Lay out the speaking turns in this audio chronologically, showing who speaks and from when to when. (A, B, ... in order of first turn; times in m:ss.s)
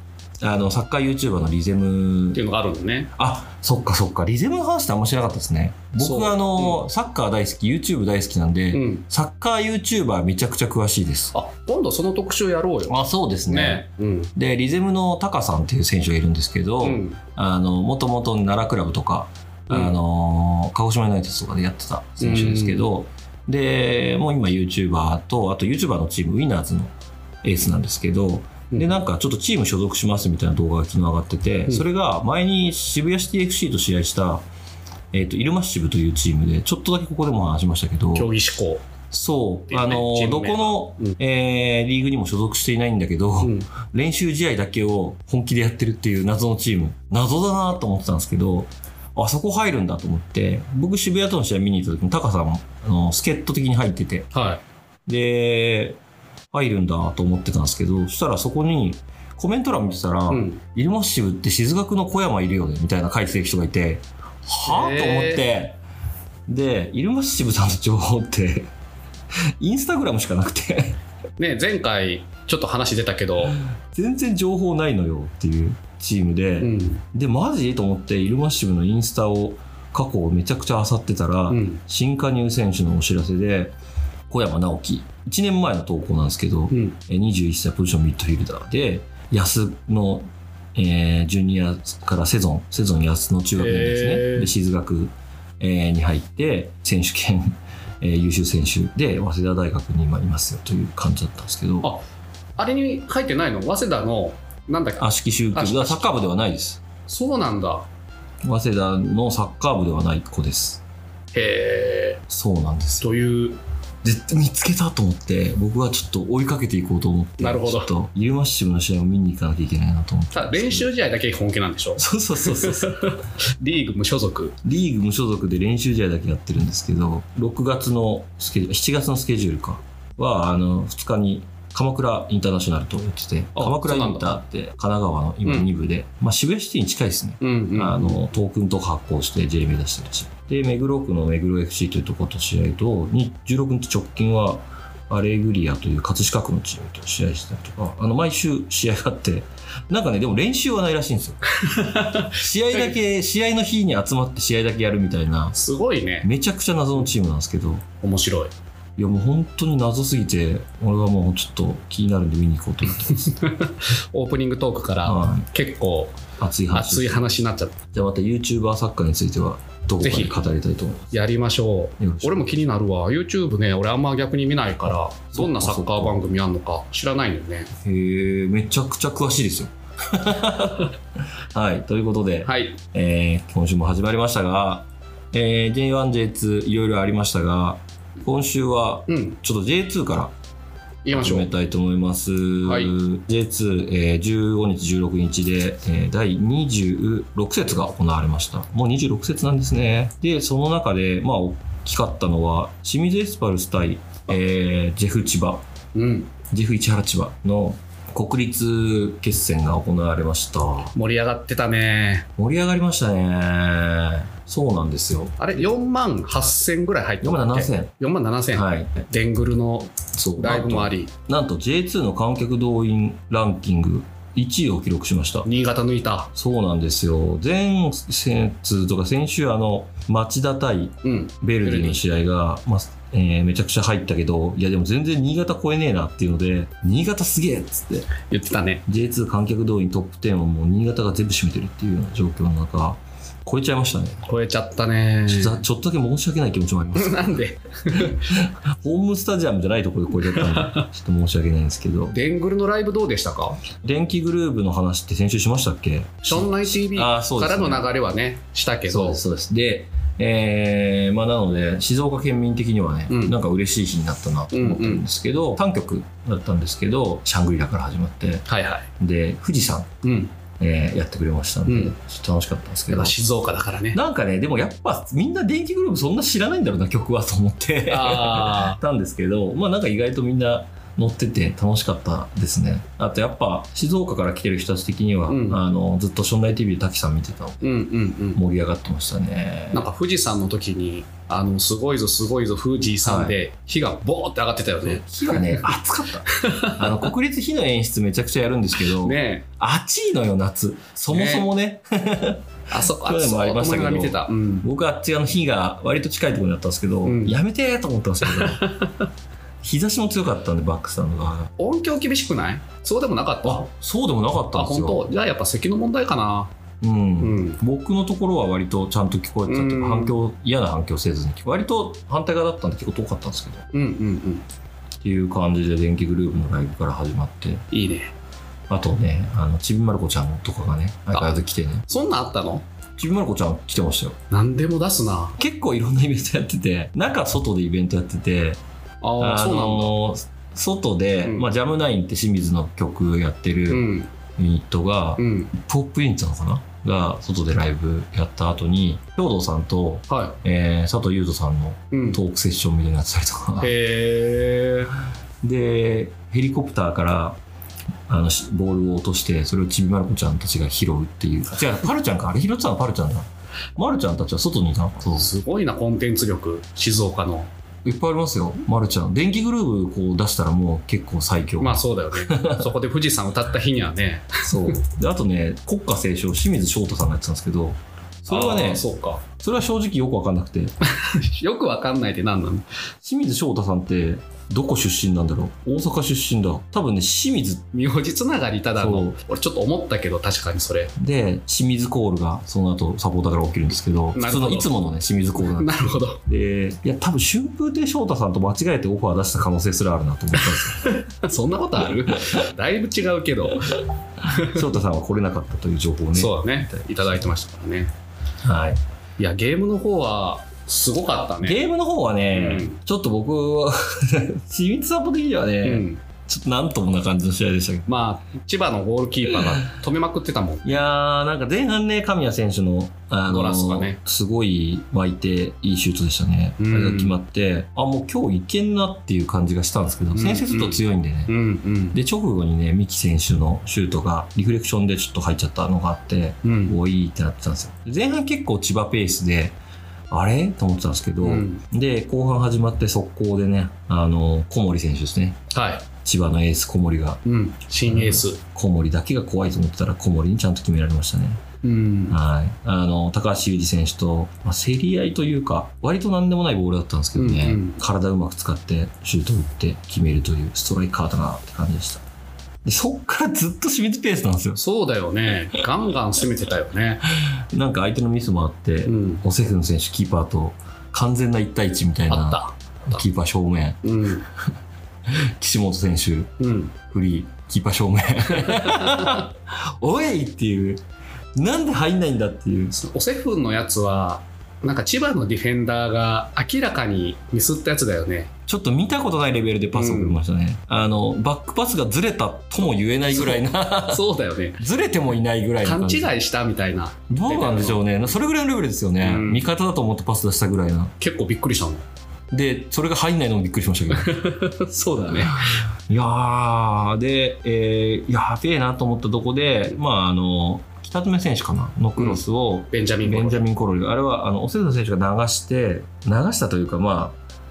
0:00.4-0:02.4 A
0:02.3-0:03.1 B
0:03.2-0:11.3 A
0:06.0-0:06.8 B
0:08.7-0:09.0 B
0:11.3-0:13.0 B
0:12.9-0:34.4 A
0:13.5-0:14.3 B
0:16.8-0:17.2 B
0:19.7-0:20.0 B
0:22.2-0:22.8 B
0:28.7-0:29.0 B
0:35.1-0:38.3 A
0:38.2-0:38.8 B
0:39.1-0:54.3 A
0:39.7-0:41.2 B
0:43.4-0:43.7 B
0:54.3-0:54.6 B
0:55.1-0:56.0 A
0:56.5-1:05.8 A
1:00.3-1:00.6 B
1:04.6-1:05.4 B
1:06.5-1:08.7 A
1:09.6-1:11.0 A
1:11.4-1:13.6 B
1:13.9-1:23.7 A
1:16.6-1:17.0 B
1:21.5-1:21.8 B
1:24.3-1:41.9 A
1:26.7-1:27.0 B
1:33.6-1:34.5 B
1:42.6-1:46.2 B
1:45.0-1:46.8 A
1:47.1-1:47.9 B
1:48.4-1:50.8 A
1:51.3-1:52.2 B
1:52.3-1:53.1 A
1:53.0-1:53.6 B
1:54.0-2:00.9 A
1:57.4-1:57.9 B
2:00.3-2:04.6 B
2:02.0-2:03.2 A
2:04.6-2:31.4 A
2:13.6-2:14.4 B
2:17.4-2:18.2 B
2:31.6-2:32.9 B
2:32.3-2:35.6 A
2:35.5-2:36.3 B
2:36.2-2:37.8 A
2:38.0-2:38.5 B
2:39.0-2:43.4 A
2:43.1-2:46.2 B
2:45.0-2:45.5 A
2:46.4-2:47.2 A
2:46.7-2:47.8 B
2:47.9-2:51.2 A
2:50.0-2:50.4 B
2:51.1-2:57.7 B
2:52.0-2:52.5 A
2:55.3-2:56.2 A
2:57.8-3:00.9 A
3:01.5-3:10.3 A
3:02.4-3:02.8 B
3:09.1-3:09.4 B
3:11.0-3:11.5 B
3:11.1-3:25.6 A
3:12.7-3:12.9 B
3:26.0-3:26.3 B
3:26.5-3:30.9 A
3:31.0-3:32.3 B
3:32.4-3:35.7 A
3:35.4-3:41.1 B
3:37.2-3:37.9 A
3:38.6-3:38.9 A
3:40.2-3:45.5 A
3:45.5-3:46.3 B
3:46.3-3:58.1 A
3:51.0-3:52.0 B
3:58.2-3:58.8 B
3:58.9-4:04.2 A
4:04.2-4:05.6 B
4:05.3-4:07.4 A
4:07.0-4:08.3 B
4:07.9-4:12.2 A
4:10.2-4:10.9 B
4:12.1-4:13.6 B
4:13.8-4:17.9 A
4:16.2-4:19.2 B
4:18.9-4:28.4 A
4:23.1-4:23.4 B
4:24.5-4:25.0 B
4:28.5-4:28.9 B
4:29.0-4:29.9 A
4:30.0-4:30.3 B
4:30.6-4:33.2 A
4:31.7-4:31.9 B
4:32.9-4:34.0 B
4:33.9-4:47.8 A
4:37.9-4:38.8 B
4:45.3-4:45.6 B
4:47.6-4:48.4 B
4:48.3-4:49.9 A
4:49.7-4:55.7 B
4:53.0-4:53.4 A
4:54.8-5:08.6 A
4:56.3-4:57.1 B
4:58.8-4:59.5 B
5:01.1-5:01.5 B
5:02.7-5:04.7 B
5:07.0-5:07.4 B
5:08.2-5:09.1 B
5:09.6-5:11.5 A
5:11.6-5:13.7 B
5:13.4-5:15.1 A
5:14.5-5:16.5 B
5:16.8-5:23.7 A
5:17.2-5:17.6 B
5:19.5-5:20.2 B
5:23.7-5:24.4 B
5:25.0-5:27.6 A
5:27.7-5:28.1 B
5:28.7-5:31.9 A
5:31.9-5:32.6 B
5:33.0-5:34.2 A
5:34.3-5:35.4 B
5:35.4-5:38.6 A
5:39.0-5:39.9 B
5:39.2-5:43.9 A
5:43.7-5:44.1 B
5:44.4-5:53.7 A
5:45.2-5:45.5 B
5:50.1-5:50.4 B
5:51.9-5:52.2 B
5:53.6-5:54.9 B
5:55.4-5:57.4 A
5:58.1-6:05.3 A
6:05.2-6:07.5 B
6:07.8-6:12.7 A
6:11.6-6:14.8 B
6:14.4-6:20.7 A
6:18.3-6:19.2 B
6:20.8-6:22.7 B
6:23.0-6:27.7 A
6:27.7-6:30.9 B
6:28.8-6:29.2 A
6:31.0-6:35.7 A
6:34.2-6:34.7 B
6:35.6-6:36.2 B
6:36.3-6:41.0 A
6:40.5-6:44.6 B
6:44.3-6:47.3 A
6:46.1-6:47.9 B
6:48.4-6:48.8 A
6:49.2-6:51.6 B
6:51.4-6:57.9 A
6:52.3-6:52.8 B
6:55.6-6:56.0 B
6:57.9-7:00.8 B
6:59.3-6:59.6 A
7:00.6-7:11.3 A
7:03.3-7:04.0 B
7:06.6-7:07.2 B
7:10.2-7:12.0 B
7:11.9-7:19.6 A
7:16.4-7:16.8 B
7:20.1-7:25.4 A
7:21.2-7:21.6 B
7:25.5-7:25.9 B
7:26.0-7:27.2 A
7:27.2-7:28.4 B
7:27.9-7:31.4 A
7:31.6-7:32.2 B
7:32.1-7:42.0 A
7:37.2-7:37.8 B
7:42.6-7:44.6 A
7:44.6-7:47.0 B
7:47.2-7:53.8 A
7:48.9-7:49.2 B
7:52.1-7:53.0 B
7:53.8-7:54.3 B
7:55.1-8:00.8 A
7:56.4-7:56.7 B
7:58.4-7:59.2 B
8:01.4-8:02.8 A
8:02.7-8:08.3 B
8:08.5-8:14.0 A
8:09.7-8:10.2 B
8:13.1-8:14.6 B
8:14.6-8:16.2 A
8:15.6-8:17.8 B
8:17.1-8:20.9 A
8:19.0-8:19.4 B
8:21.0-8:21.8 B
8:22.3-8:24.2 A
8:23.9-8:25.6 B
8:25.1-8:37.2 A
8:32.0-8:33.4 B